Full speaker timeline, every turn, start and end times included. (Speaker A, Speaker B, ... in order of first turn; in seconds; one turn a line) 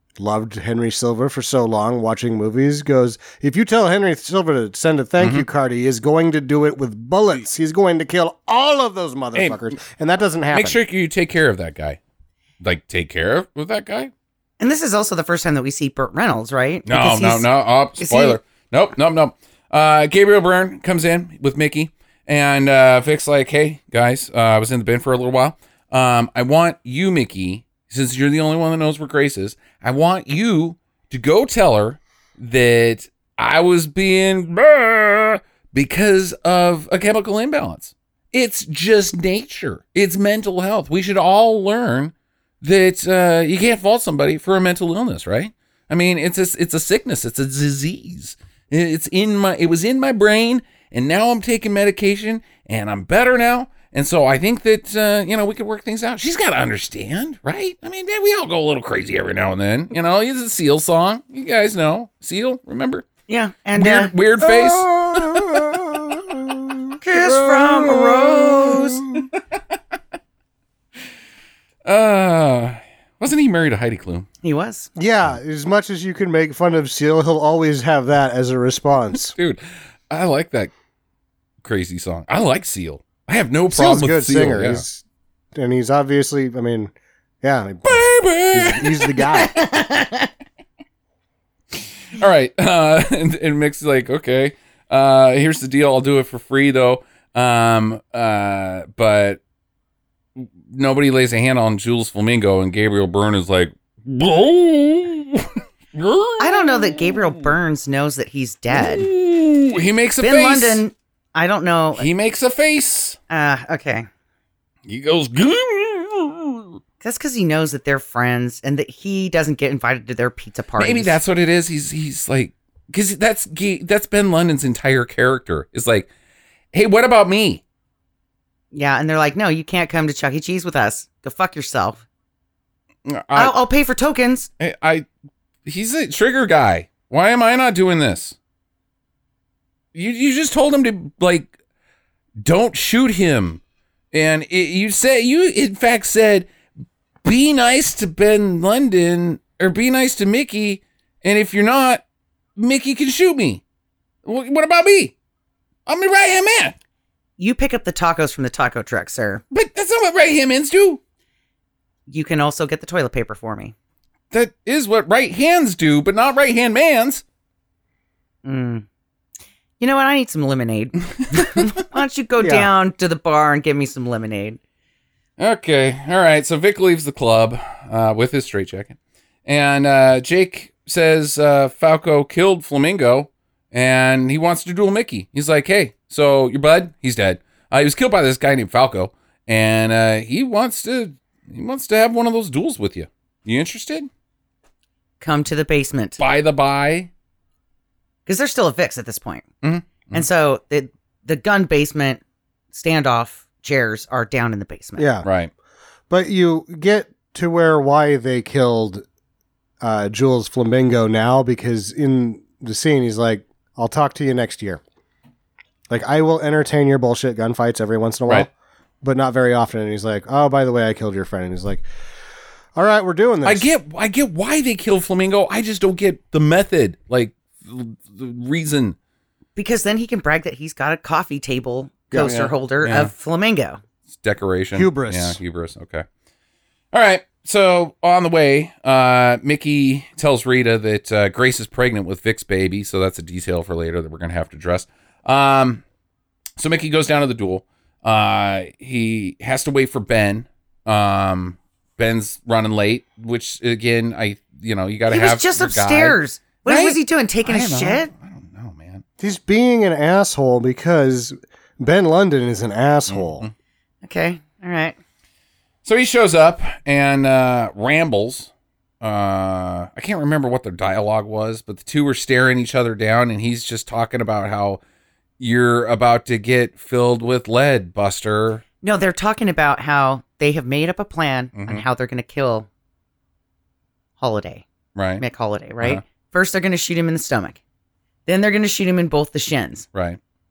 Speaker A: 0.2-10.8
Speaker B: 5.2-5.5
Speaker B: 9.3-9.6
Speaker B: 10.5-12.0
Speaker B: 12.6-14.1
Speaker C: 14.6-18.4
Speaker B: 16.9-63.1
Speaker C: 63.3-64.1
Speaker B: 63.8-65.9
Speaker A: 64.4-69.2
Speaker C: 67.0-69.1
Speaker B: 68.7-69.2
Speaker B: 71.8-74.3
Speaker C: 74.4-74.9
Speaker A: 75.0-79.4
Speaker B: 79.3-80.7
Speaker B: 81.6-84.8
Speaker A: 83.7-85.0
Speaker A: 85.5-89.6
Speaker B: 87.9-89.4
Speaker C: 89.4-90.3
Speaker B: 91.7-99.4
Speaker B: 100.4-107.5
Speaker C: 106.4-109.1
Speaker B: 108.7-110.8
Speaker C: 110.2-112.1
Speaker B: 112.0-113.2
Speaker C: 113.3-114.1
Speaker B: 114.9-116.8
Speaker C: 117.0-121.2
Speaker B: 120.8-126.1
Speaker B: 126.7-127.6
Speaker C: 128.7-132.0
Speaker B: 133.1-133.6
Speaker C: 133.3-134.5
Speaker B: 134.6-135.1
Speaker B: 135.7-138.4
Speaker B: 139.9-141.5
Speaker B: 142.4-146.5
Speaker B: 147.2-152.0
Speaker B: 152.6-153.6
Speaker B: 154.2-155.2
Speaker B: 155.9-156.8
Speaker C: 157.4-159.4
Speaker B: 159.5-161.0
Speaker C: 162.1-163.7
Speaker B: 164.3-167.2
Speaker C: 168.4-168.8
Speaker C: 169.8-174.6
Speaker B: 171.3-171.7
Speaker A: 172.4-172.7
Speaker B: 175.4-194.1
Speaker C: 195.2-196.2
Speaker B: 196.2-197.1
Speaker C: 198.3-199.5
Speaker B: 199.6-200.3
Speaker C: 200.1-202.2
Speaker C: 202.7-205.1
Speaker A: 205.0-205.3
Speaker B: 205.2-205.5
Speaker A: 206.1-209.0
Speaker A: 209.8-214.8
Speaker A: 215.9-218.5
Speaker A: 219.0-221.8
Speaker A: 222.8-223.7
Speaker B: 223.4-229.0
Speaker C: 229.6-233.8
Speaker B: 232.1-233.1
Speaker B: 234.1-236.1
Speaker A: 234.7-235.4
Speaker B: 236.9-245.8
Speaker B: 246.6-259.0
Speaker C: 255.1-258.1
Speaker A: 259.2-263.5
Speaker B: 263.1-263.5
Speaker C: 264.0-265.0
Speaker B: 265.8-274.8
Speaker B: 275.4-278.6
Speaker C: 278.8-282.7
Speaker B: 281.6-281.9
Speaker C: 284.2-284.6
Speaker B: 285.0-285.2
Speaker C: 285.2-287.6
Speaker C: 288.3-289.9
Speaker B: 289.9-290.2